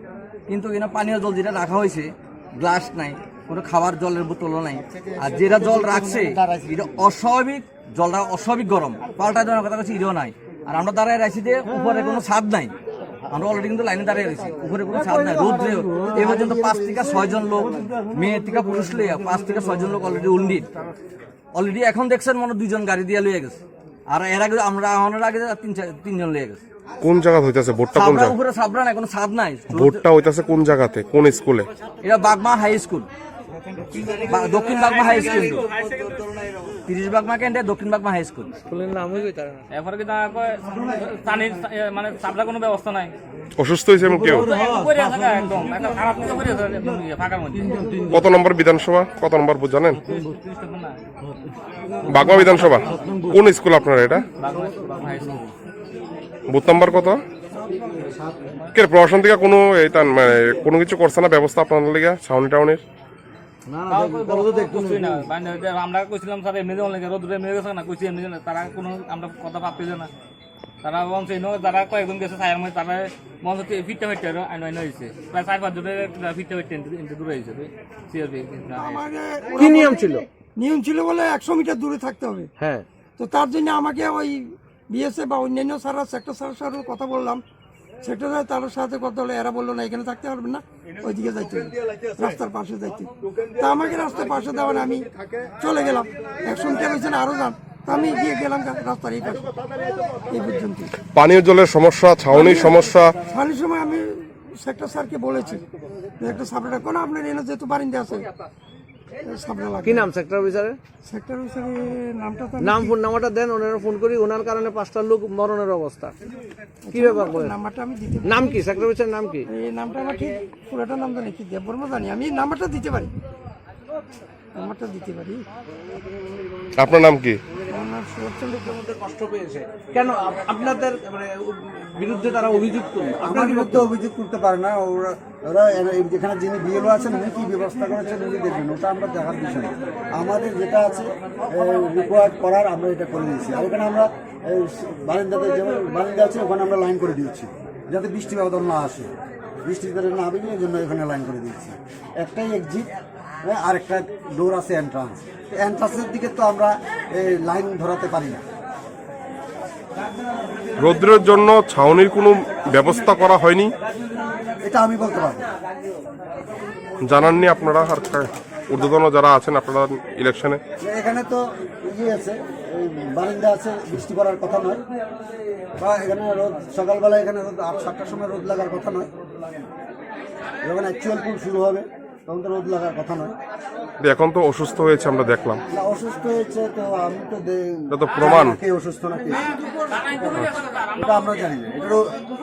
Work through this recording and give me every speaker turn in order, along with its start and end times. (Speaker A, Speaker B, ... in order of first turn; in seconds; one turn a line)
Speaker A: 0.5-12.8
Speaker B: 5.0-6.8
Speaker A: 13.3-20.7
Speaker B: 14.9-18.1
Speaker A: 21.5-26.6
Speaker C: 27.0-28.4
Speaker A: 27.9-30.1
Speaker C: 29.7-31.7
Speaker A: 32.0-33.1
Speaker B: 33.9-34.4
Speaker A: 34.3-35.6
Speaker B: 35.3-35.7
Speaker A: 36.9-38.5
Speaker B: 38.7-39.6
Speaker D: 39.7-43.1
Speaker C: 43.6-44.5
Speaker D: 44.5-47.9
Speaker C: 48.1-50.0
Speaker D: 50.1-51.0
Speaker C: 52.0-54.2
Speaker D: 54.4-55.5
Speaker C: 56.5-57.2
Speaker C: 58.8-62.8
Speaker B: 63.7-65.2
Speaker D: 63.9-70.1
Speaker D: 70.8-79.0
Speaker E: 78.7-80.0
Speaker B: 79.5-80.2
Speaker E: 80.5-82.5
Speaker B: 82.6-82.9
Speaker E: 83.2-87.4
Speaker E: 88.0-99.6
Speaker E: 100.3-100.9
Speaker C: 101.1-103.1
Speaker E: 102.3-105.6
Speaker E: 106.2-108.2
Speaker E: 109.2-110.1
Speaker B: 109.8-110.8
Speaker E: 111.0-113.0
Speaker B: 112.6-116.1
Speaker E: 116.8-118.8
Speaker B: 116.9-117.5
Speaker B: 118.2-119.5
Speaker E: 119.5-123.1
Speaker E: 124.5-125.4
Speaker C: 126.8-127.4
Speaker E: 127.7-128.8
Speaker B: 128.7-133.9
Speaker F: 133.2-149.1
Speaker F: 149.6-152.9
Speaker F: 153.4-158.4
Speaker C: 160.8-163.8
Speaker F: 164.6-165.5
Speaker C: 167.1-170.6
Speaker F: 170.8-174.8
Speaker F: 175.8-179.1
Speaker F: 180.6-183.3
Speaker C: 184.0-185.6
Speaker F: 185.7-189.5
Speaker C: 187.9-188.6
Speaker F: 190.2-192.0